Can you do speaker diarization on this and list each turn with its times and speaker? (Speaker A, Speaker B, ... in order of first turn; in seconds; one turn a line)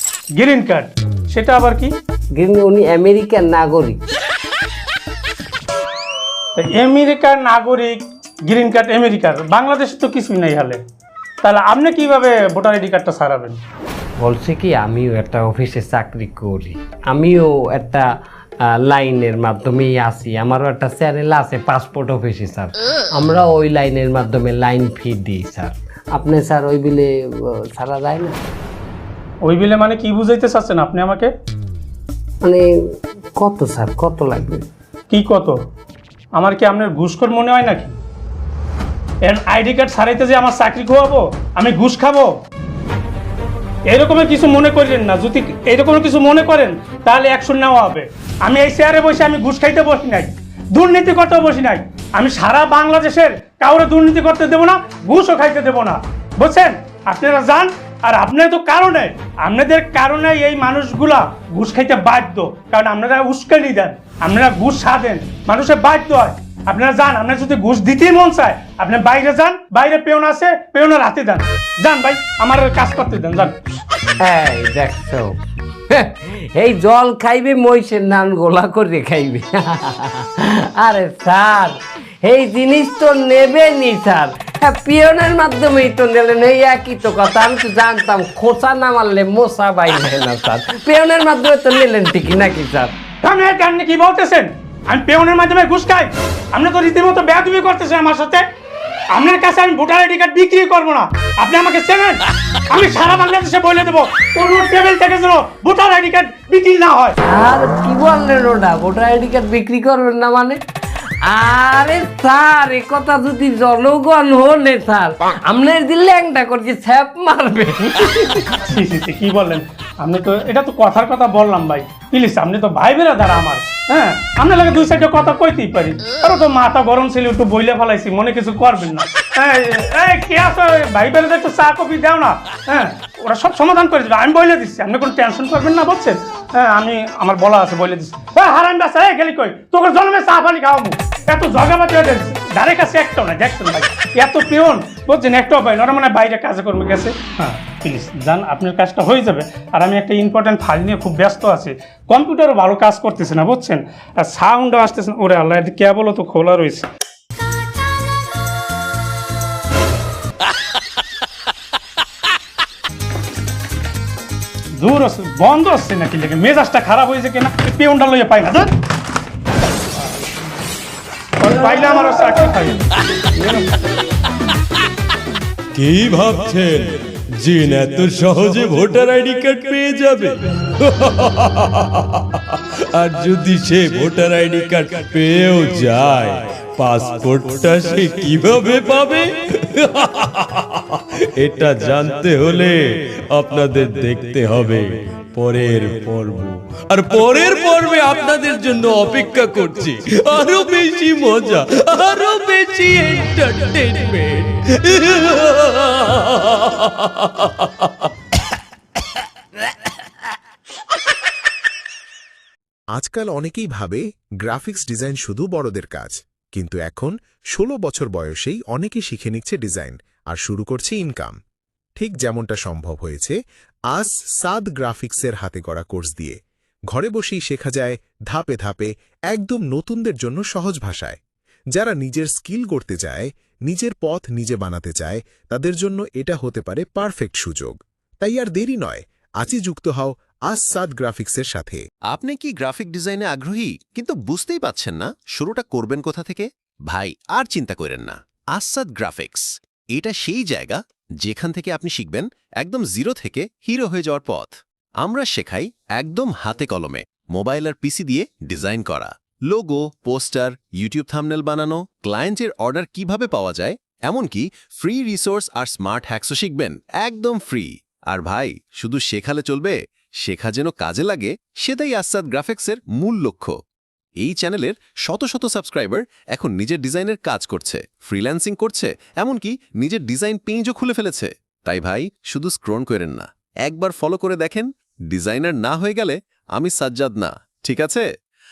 Speaker A: 0.4-1.9
Speaker B: 2.3-4.0
Speaker A: 6.6-10.8
Speaker A: 11.4-13.6
Speaker B: 14.2-18.1
Speaker B: 18.7-28.4
Speaker A: 29.4-31.3
Speaker B: 33.4-34.6
Speaker A: 35.1-35.6
Speaker A: 36.4-37.9
Speaker A: 39.2-42.3
Speaker A: 43.9-73.6
Speaker B: 74.2-75.3
Speaker B: 75.9-92.9
Speaker A: 93.2-98.4
Speaker A: 99.1-107.2
Speaker B: 107.2-110.6
Speaker B: 111.3-118.4
Speaker A: 118.6-156.9
Speaker A: 164.8-168.7
Speaker A: 169.9-170.2
Speaker A: 171.4-173.7
Speaker C: 175.7-192.8
Speaker C: 193.3-208.0
Speaker D: 212.9-221.3
Speaker D: 222.0-223.3
Speaker D: 223.9-226.4
Speaker D: 226.9-231.2
Speaker D: 231.7-241.8
Speaker E: 242.1-273.6
Speaker E: 274.2-288.1